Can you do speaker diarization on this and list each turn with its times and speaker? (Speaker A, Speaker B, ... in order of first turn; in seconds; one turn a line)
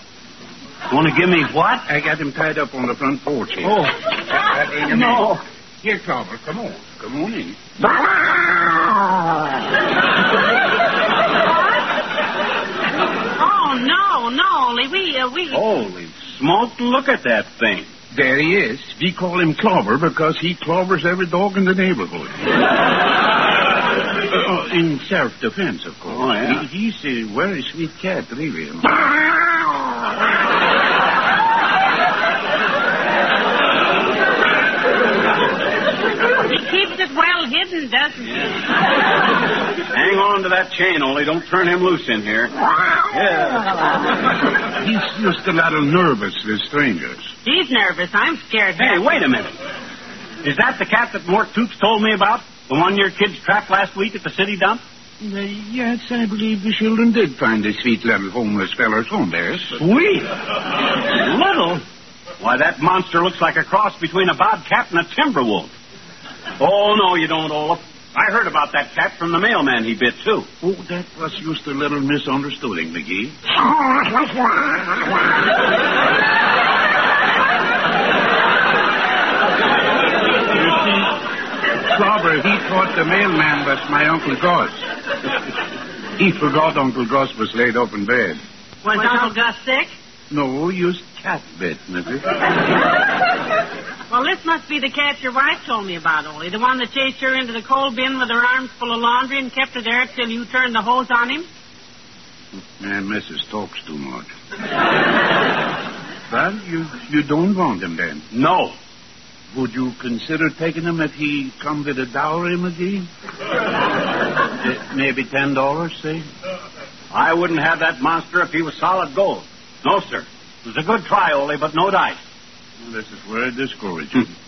Speaker A: 0.9-1.9
Speaker B: 1.9-8.1
Speaker A: 3.6-4.1
Speaker A: 4.8-5.4
Speaker C: 13.3-15.6
Speaker A: 15.5-17.9
Speaker B: 18.1-22.5
Speaker B: 24.1-29.5
Speaker A: 26.1-26.6
Speaker C: 36.4-38.6
Speaker A: 38.2-38.5
Speaker A: 39.9-44.1
Speaker B: 44.7-47.3
Speaker C: 47.4-49.2
Speaker A: 48.8-49.5
Speaker A: 50.4-54.8
Speaker B: 55.2-59.8
Speaker A: 59.7-61.8
Speaker A: 62.4-65.7
Speaker A: 66.6-70.5
Speaker B: 70.6-75.0
Speaker B: 80.5-84.9
Speaker B: 86.2-88.4
Speaker C: 88.8-89.9
Speaker B: 90.3-92.3
Speaker C: 94.1-101.5
Speaker B: 102.8-104.3
Speaker B: 106.3-108.2
Speaker A: 108.3-108.7
Speaker B: 109.5-113.1
Speaker B: 114.4-116.2
Speaker A: 117.1-122.2
Speaker B: 122.8-124.3